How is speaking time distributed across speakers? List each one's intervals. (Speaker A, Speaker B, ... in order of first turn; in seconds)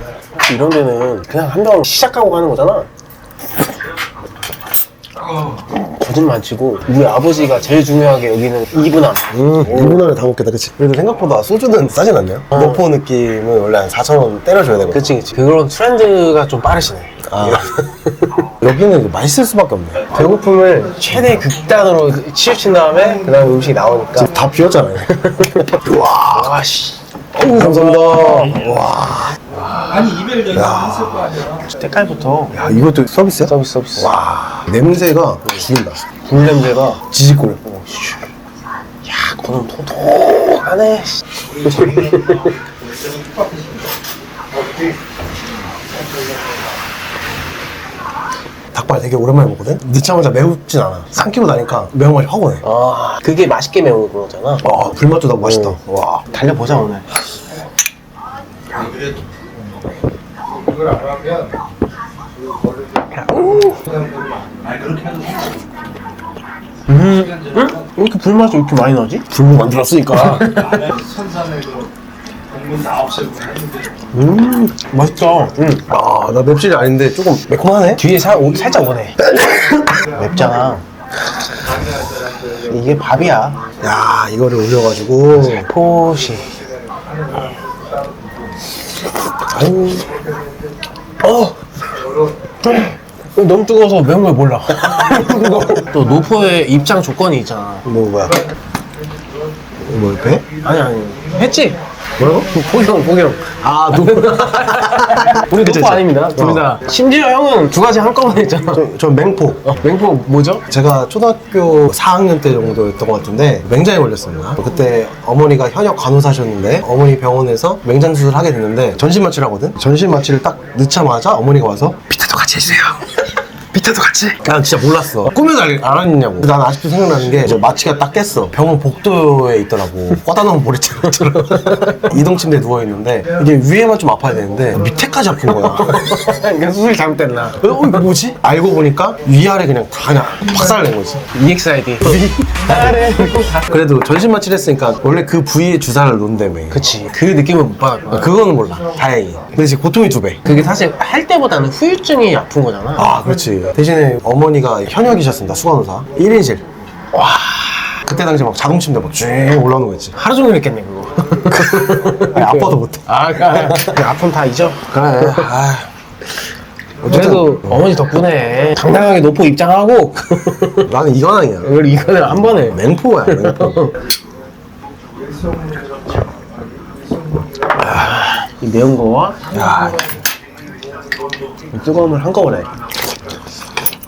Speaker A: 0.4-2.9, 5.8-10.0, 14.9-18.4, 20.1-24.3, 25.1-28.6, 29.6-30.5, 31.6-32.6, 33.4-34.1, 36.2-37.0, 39.0-42.5, 52.6-54.6, 55.4-55.8, 56.3-57.0, 63.1-63.9, 66.9-71.0, 74.2-75.9, 78.0-80.8, 82.5-83.7, 85.3-86.6, 91.2-91.5, 93.3-97.9, 100.6-108.8, 109.6-110.7, 122.2-123.2, 123.7-124.4, 131.1-132.2, 135.5-138.2, 141.3-143.7, 146.7-148.3, 150.4-153.1, 157.1-158.0, 160.2-165.5, 167.1-170.9, 171.6-174.0, 177.8-179.6, 181.7-182.7
Speaker B: 9.3-15.1, 17.3-17.6, 18.6-20.1, 21.2-21.4, 24.1-26.6, 27.4-29.4, 30.3-31.6, 32.5-36.0, 37.1-38.1, 48.7-52.6, 54.6-56.2, 69.3-70.6, 74.3-74.5, 75.9-78.0, 79.2-80.0, 83.8-85.7, 89.5-90.2, 95.0-95.8, 97.8-98.5, 99.8-100.5, 102.2-102.6, 103.6-106.7, 108.7-109.7, 110.7-122.2, 124.4-136.2, 137.6-141.2, 142.0-146.8, 148.1-150.4, 153.0-156.6, 158.0-160.1, 161.5-164.0, 164.9-165.9, 167.0-167.9, 170.9-173.8, 179.5-180.2
Speaker C: 60.8-61.5, 64.2-65.2, 71.0-71.8, 72.8-73.7, 175.4-176.0, 177.2-177.5